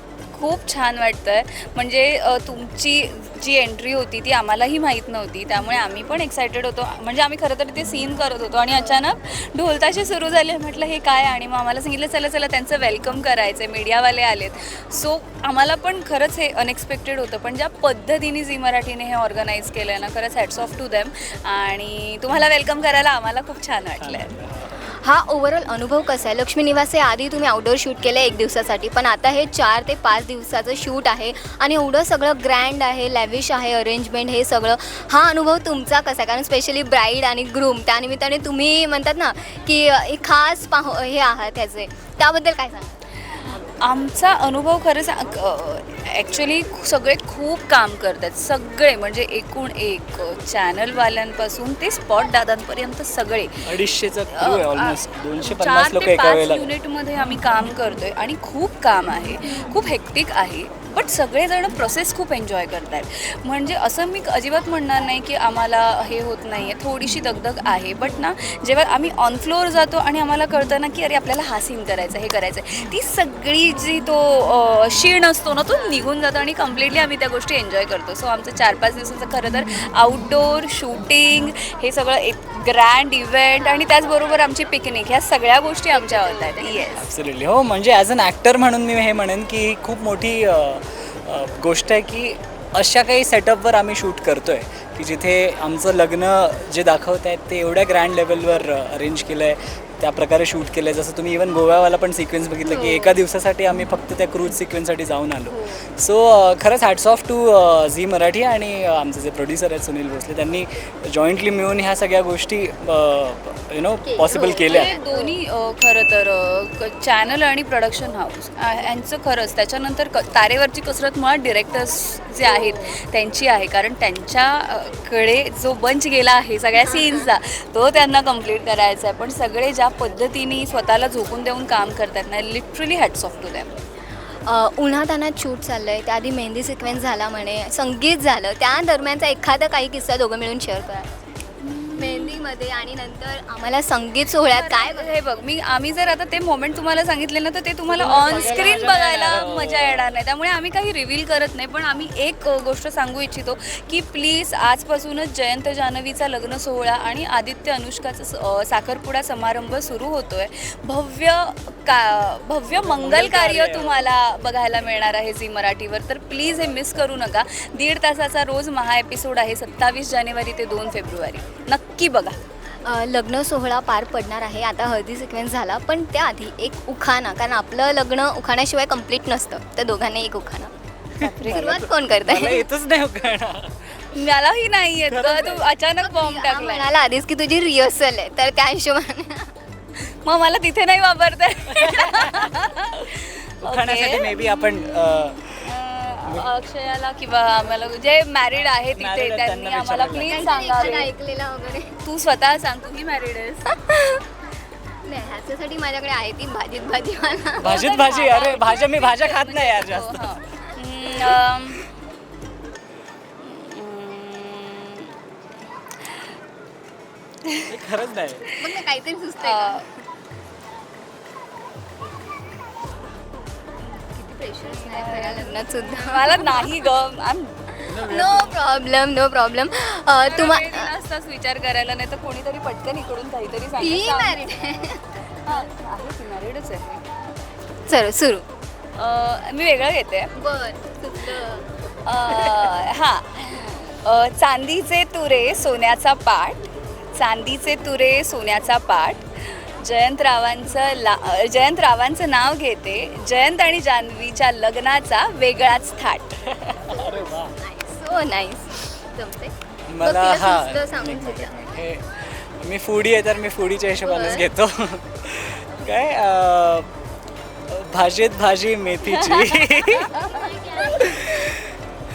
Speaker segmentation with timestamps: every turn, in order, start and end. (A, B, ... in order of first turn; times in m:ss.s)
0:00.3-0:24.3 A
0:24.0-0:24.9 B
0:25.0-0:42.9 C
0:43.2-0:53.6 A
0:53.6-0:56.7 B
0:54.3-1:27.1 A
1:23.6-1:24.0 C
1:25.9-1:27.0 C
1:26.9-1:54.9 B
1:54.0-1:55.3 C
1:54.7-2:13.8 A
2:02.4-2:02.9 C
2:06.8-2:07.2 C
2:14.5-2:21.1 C
2:21.6-2:22.4 A
2:22.0-2:25.2 C
2:24.4-2:52.4 A
2:27.8-2:30.1 B
2:28.2-2:28.7 C
2:42.7-2:44.1 B
2:52.8-3:00.7 C
3:01.2-3:01.9 A
3:01.2-3:04.0 B
3:01.4-3:02.6 C
3:04.1-3:06.9 A
3:05.0-3:05.8 B
3:06.0-3:09.5 C
3:10.0-3:14.4 A
3:11.7-3:12.7 B
3:13.6-3:15.6 B
3:15.6-3:21.1 A
3:18.9-3:21.0 B
3:20.2-3:22.0 C
3:22.0-3:23.7 A
3:23.8-3:24.2 C
3:25.0-3:28.0 C
3:27.6-3:30.4 B
3:27.6-3:31.8 A
3:33.4-3:35.2 A
3:37.7-3:38.5 B
3:38.6-3:39.9 C
3:39.4-3:39.8 A
3:43.9-3:46.7 C
3:44.9-3:47.6 A
3:47.8-3:48.6 B
3:48.0-3:50.9 C
3:50.2-3:54.5 A
3:53.8-3:55.0 C
3:55.4-3:57.0 A
3:57.9-3:58.4 C
3:59.0-4:00.3 A
4:00.4-4:01.6 C
4:02.0-4:16.6 A
4:02.3-4:02.7 B
4:16.5-4:17.5 B
4:16.8-4:19.5 C
4:19.9-4:26.9 B
4:20.0-4:21.6 C
4:24.0-4:24.4 C
4:27.7-4:30.1 B
4:29.1-4:31.1 A
4:30.2-4:31.4 C
4:31.0-4:31.7 B